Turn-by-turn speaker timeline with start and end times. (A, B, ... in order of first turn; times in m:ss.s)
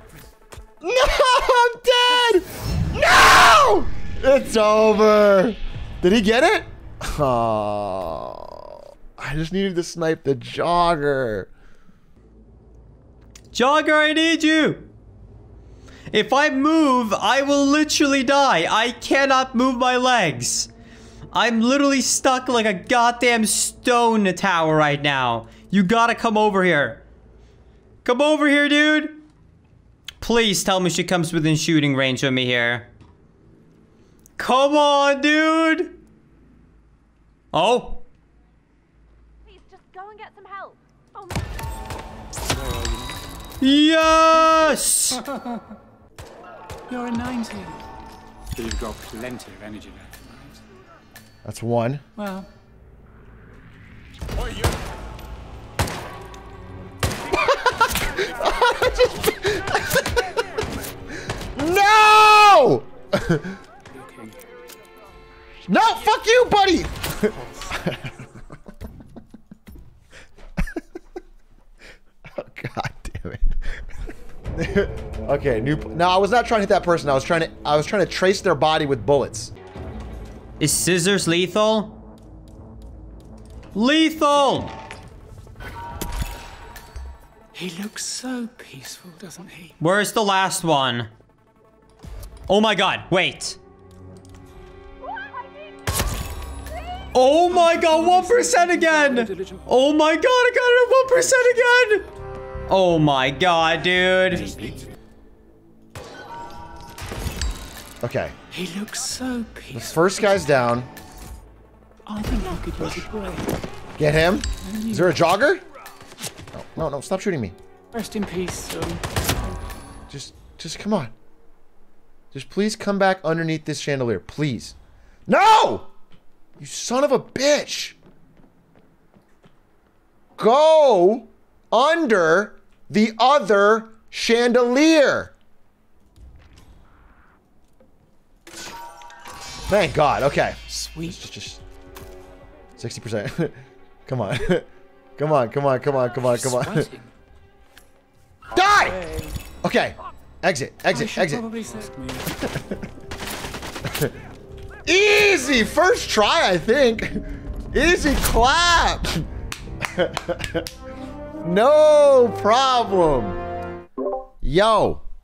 0:00.8-0:11.5 A
0:13.5-0:14.9 B
0:16.1-0:20.7 B
0:21.3-0:27.0 B
0:28.0-0:29.2 B
0:30.2-0:32.9 B
0:34.4-0:35.9 B
0:37.5-0:38.0 B
0:39.5-0:41.5 C
0:42.5-0:43.2 D
0:43.6-0:45.2 B
0:44.3-0:45.6 D
0:46.9-0:47.8 D
0:48.5-0:50.6 D
0:51.4-0:52.0 A
0:52.2-0:52.5 D
0:57.3-1:00.6 A
1:01.6-1:03.6 A
1:03.9-1:04.4 D
1:05.7-1:08.2 A
1:12.4-1:13.6 A
1:14.6-1:19.5 A
1:20.6-1:22.0 B
1:23.7-1:24.7 B
1:27.5-1:29.8 D
1:29.8-1:31.1 B
1:32.5-1:33.6 B
1:35.2-1:35.5 C
1:37.1-1:42.1 B
1:37.5-1:39.6 D
1:42.7-1:44.6 B
1:44.3-1:44.9 D
1:48.0-1:48.4 A
1:48.5-1:50.4 D
1:49.7-1:50.9 A
1:52.1-1:53.5 D
1:54.0-1:55.6 A
1:54.6-1:55.2 D
1:56.5-1:57.6 A
1:57.9-1:59.2 D
2:00.1-2:01.1 A
2:02.3-2:04.8 A
2:05.3-2:05.9 A
2:06.6-2:08.0 A
2:10.4-2:15.3 A
2:19.7-2:21.6 A
2:20.7-2:21.2 D
2:22.8-2:26.9 A
2:26.3-2:27.1 D
2:28.5-2:29.0 A
2:28.6-2:29.4 D
2:29.6-2:31.5 A
2:30.9-2:32.4 D
2:32.4-2:32.8 A
2:33.8-2:34.1 A
2:34.9-2:39.3 A
2:39.8-2:40.7 A
2:41.4-2:43.4 A
2:44.4-2:45.0 A